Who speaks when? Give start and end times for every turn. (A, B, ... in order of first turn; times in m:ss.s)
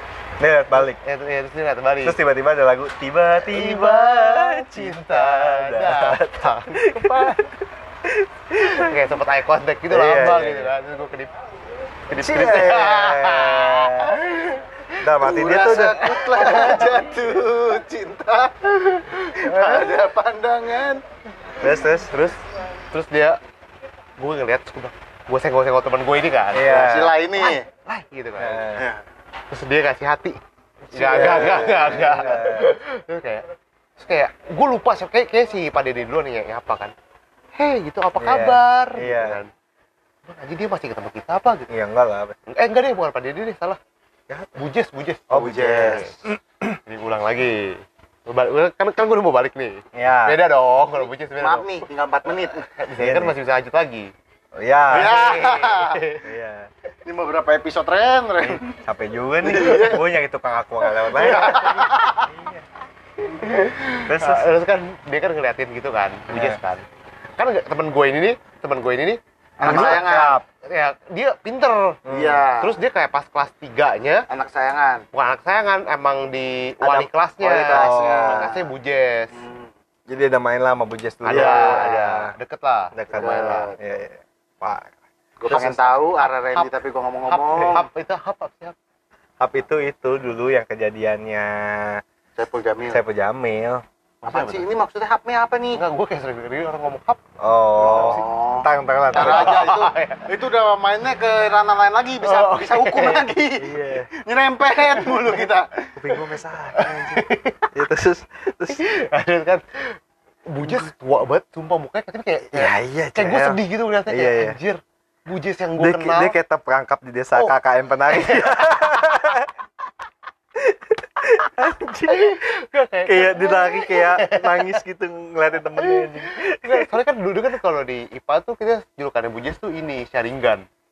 0:00.4-0:01.0 A
0:01.0-0:02.2 B
0:02.0-0:09.0 A
0:03.4-0:07.4 B
0:08.6-0:11.3 B
0:09.9-0:10.7 A
0:12.1-0:14.2 A
0:12.1-0:14.6 B
0:15.0-0:16.0 A
0:15.2-0:21.0 C
0:16.0-0:17.0 B
0:19.3-0:19.9 B
0:21.6-0:22.3 A
0:22.1-0:22.4 B
0:22.9-0:23.4 B
0:24.2-0:26.8 B
0:26.5-0:27.2 A
0:26.6-0:27.6 C
0:27.4-0:28.6 B
0:28.4-0:28.8 A
0:28.8-0:29.0 C
0:29.5-0:33.4 B
0:30.9-0:32.7 A
0:31.0-0:32.4 C
0:34.0-0:36.9 B
0:37.6-0:39.5 B
0:38.2-0:39.4 A
0:40.2-0:41.7 B
0:41.7-0:42.4 A
0:42.5-0:43.8 B
0:44.3-0:44.6 A
0:44.6-0:46.2 B
0:45.3-0:46.8 A
0:46.8-0:51.7 B
0:49.9-0:50.4 A
0:51.4-0:52.7 C
0:52.7-0:54.1 B
0:53.0-0:53.3 A
0:54.6-0:55.4 A
0:54.9-0:56.0 C
0:54.9-0:56.3 B
0:56.2-0:56.7 A
0:57.0-0:58.8 C
0:58.5-1:02.6 A
0:59.4-1:00.1 C
1:00.9-1:02.3 C
1:01.3-1:01.8 B
1:03.2-1:06.8 B
1:04.0-1:04.5 A
1:06.3-1:06.6 A
1:07.4-1:10.0 B
1:09.6-1:10.4 A
1:09.6-1:10.4 C
1:10.6-1:12.0 B
1:12.0-1:12.4 A
1:12.1-1:12.7 C
1:12.6-1:14.3 B
1:14.3-1:15.0 C
1:15.1-1:19.4 B
1:16.9-1:18.7 C
1:17.7-1:18.4 A
1:19.3-1:19.7 C
1:20.1-1:22.3 A
1:21.2-1:23.7 B
1:21.3-1:22.0 C
1:22.9-1:24.9 A
1:23.1-1:23.8 C
1:25.4-1:27.9 C
1:25.5-1:26.0 A
1:26.2-1:26.7 B
1:27.3-1:28.8 B
1:29.4-1:32.0 A
1:32.4-1:33.0 C
1:32.9-1:33.8 A
1:34.2-1:34.7 B
1:34.2-1:35.8 C
1:35.7-1:37.2 B
1:37.4-1:39.6 A
1:37.8-1:38.2 B
1:37.8-1:45.9 C
1:39.1-1:40.3 B
1:42.2-1:43.2 B
1:43.6-1:44.1 A
1:45.0-1:45.4 B
1:46.0-1:48.8 A
1:46.7-1:47.7 B
1:48.7-1:56.4 B
1:52.5-1:54.6 A
1:55.8-1:59.5 A
1:58.1-1:59.4 B
2:00.6-2:02.4 A
2:02.1-2:04.8 B
2:03.0-2:06.9 A
2:05.8-2:10.6 B